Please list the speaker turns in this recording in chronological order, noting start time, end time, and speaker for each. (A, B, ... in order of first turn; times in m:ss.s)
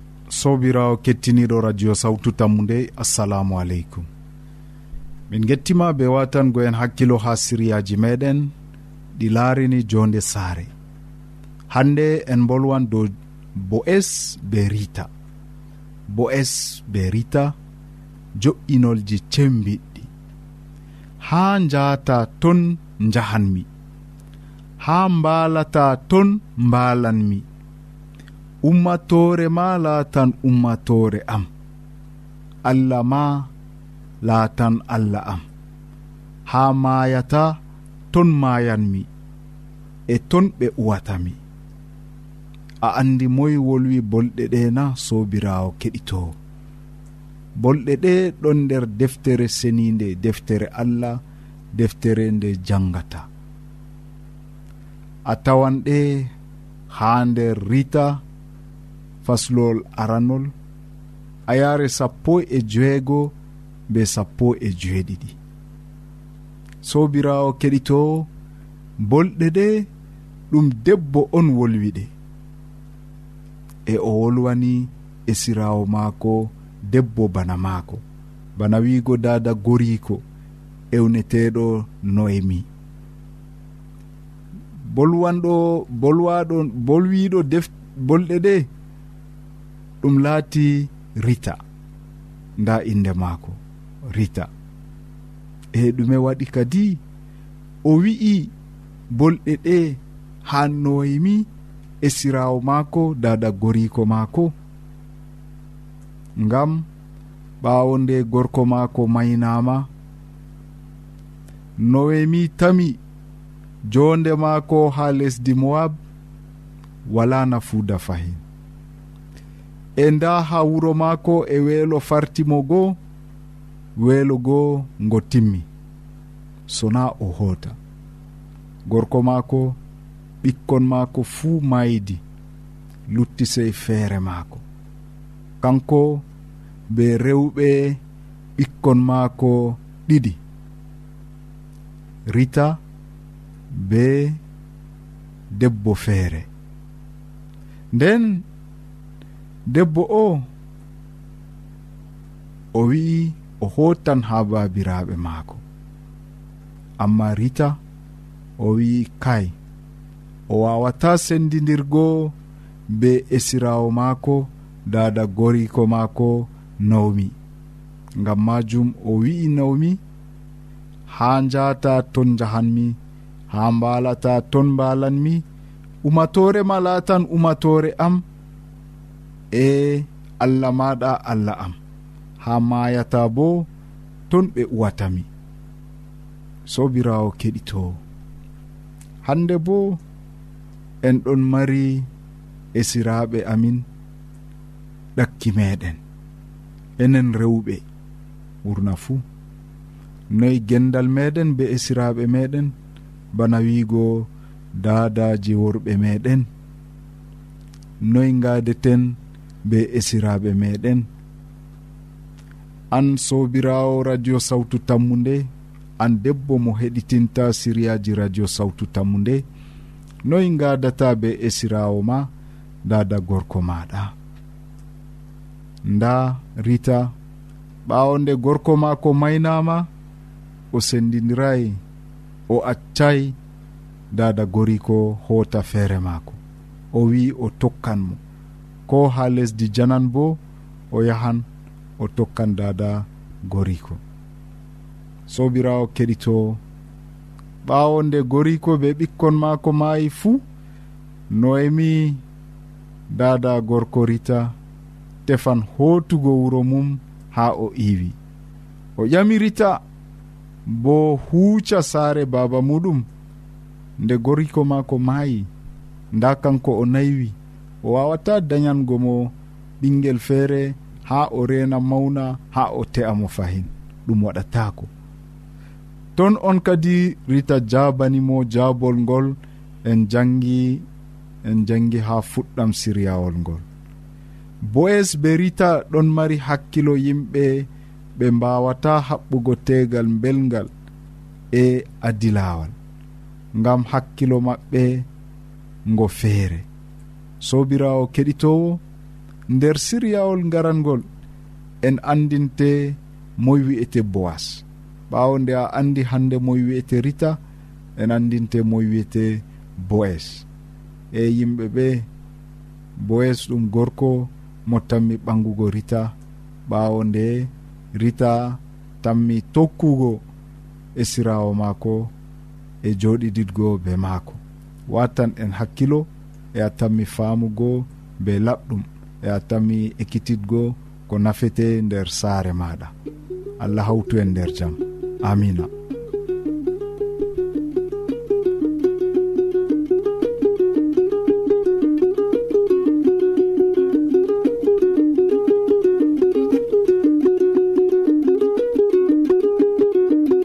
0:00.3-0:04.1 A
0:05.3-0:08.5 A
0:09.2-0:10.7 A
0:11.7-0:15.1 A
0:16.1-0:17.6 A
0:18.4-0:20.1 A
0:21.2-0:23.7 A
0:24.8-0:27.5 A
0:28.6-0:31.5 A
0:32.6-0:33.5 A
0:34.2-0:35.5 A
0:36.5-0:37.6 A
0:38.1-0:39.1 A
0:40.1-0:41.4 A
0:42.8-0:46.4 A
0:47.6-0:51.2 A
0:51.7-0:53.3 A
0:55.3-0:56.3 A
0:56.9-0:58.2 A
0:59.2-1:00.5 A
1:01.5-1:03.3 A
1:03.9-1:05.4 A
1:06.8-1:08.3 A
1:09.0-1:09.9 A
1:10.5-1:12.1 A
1:13.9-1:18.0 A
1:18.6-1:20.2 A
1:20.9-1:22.7 A
1:24.9-1:28.7 A
1:30.0-1:31.6 A
1:32.6-1:34.5 A
1:35.7-1:37.0 A
1:37.8-1:38.5 A
1:39.1-1:41.5 A
1:42.0-1:44.5 A
1:46.4-1:46.9 A
1:47.6-1:49.9 A
1:51.8-1:53.0 A
1:53.9-1:56.0 A
1:57.1-1:58.4 A
2:00.0-2:03.0 A
2:04.0-2:05.7 A
2:06.7-2:07.8 A
2:08.9-2:09.8 A
2:10.4-2:12.2 A
2:13.1-2:14.6 A
2:15.6-2:16.2 A
2:16.9-2:18.0 A
2:18.6-2:20.4 A
2:22.3-2:22.8 A
2:23.8-2:24.4 A
2:25.6-2:26.5 A
2:27.9-2:28.5 A
2:29.7-2:30.5 A
2:32.7-2:35.6 A
2:37.0-2:37.8 A
2:38.6-2:39.5 A
2:40.5-2:42.4 A
2:42.9-2:47.4 A
2:48.2-2:50.0 A
2:51.1-2:53.0 A
2:53.5-2:55.4 A
2:56.0-2:58.2 A
2:59.5-3:01.8 A
3:02.4-3:03.7 A
3:04.3-3:05.3 A
3:06.7-3:08.0 A
3:09.2-3:10.0 A
3:11.0-3:12.1 A
3:12.8-3:13.9 A
3:15.2-3:16.0 A
3:17.0-3:17.8 A
3:18.6-3:19.2 A
3:20.3-3:22.8 A
3:23.3-3:26.5 A
3:28.0-3:31.1 A
3:32.9-3:39.4 A
3:40.2-3:42.3 A
3:42.8-3:44.1 A
3:45.8-3:47.1 A
3:47.9-3:49.9 A
3:50.7-3:51.8 A
3:52.5-3:53.4 A
3:54.1-3:56.4 A
3:56.9-3:58.2 A
3:58.9-4:00.4 A
4:00.9-4:01.5 A
4:02.0-4:04.0 A
4:05.3-4:06.6 A
4:07.6-4:10.4 A
4:11.3-4:12.2 A
4:13.1-4:14.6 A
4:15.2-4:18.2 A
4:19.0-4:19.8 A
4:20.7-4:23.1 A
4:24.0-4:25.5 A
4:26.1-4:34.9 A
4:36.2-4:40.8 A
4:41.4-4:43.6 A
4:44.6-4:50.7 A
4:51.5-4:52.7 A
4:53.6-4:55.1 A
4:55.9-4:56.6 A
4:57.4-4:58.8 A
4:59.5-5:01.1 A
5:01.8-5:07.4 A
5:08.0-5:10.5 A
5:11.1-5:12.1 A
5:13.0-5:16.1 A
5:16.7-5:20.2 A
5:21.0-5:22.1 A
5:22.8-5:32.9 A
5:33.6-5:35.7 A